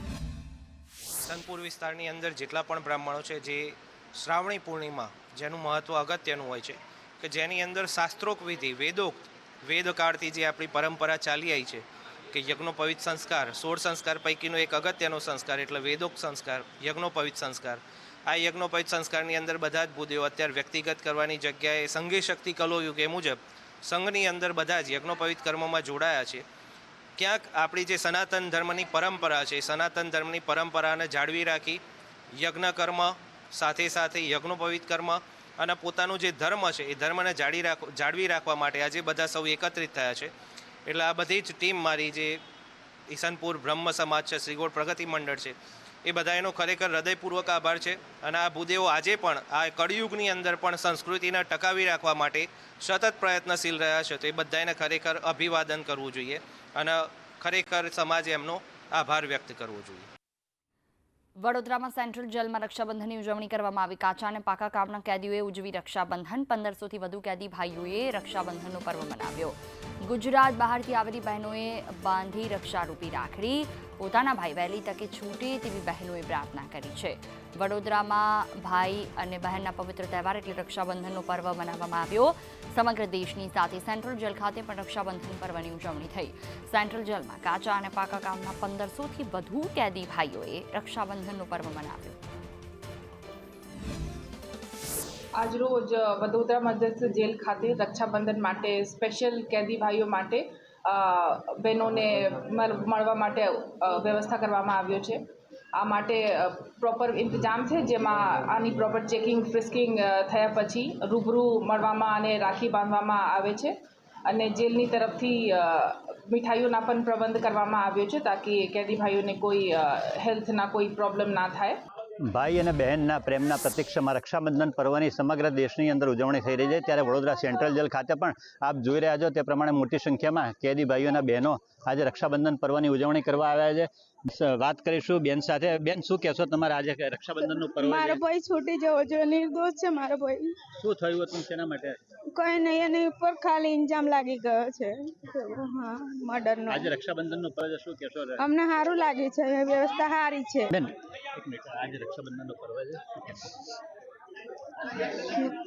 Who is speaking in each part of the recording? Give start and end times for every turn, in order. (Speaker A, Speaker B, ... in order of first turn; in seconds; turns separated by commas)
Speaker A: 1.2-26.4, Speaker A: 27.2-31.8, Speaker A: 32.3-40.3, Speaker A: 40.9-42.4, Speaker A: 43.1-60.1, Speaker B: 61.4-92.2, Speaker C: 95.3-121.8, Speaker D: 122.2-138.2, Speaker E: 137.6-140.6, Speaker D: 140.7-142.0, Speaker E: 142.3-146.9, Speaker D: 146.7-148.4, Speaker E: 148.4-150.7, Speaker D: 150.7-153.4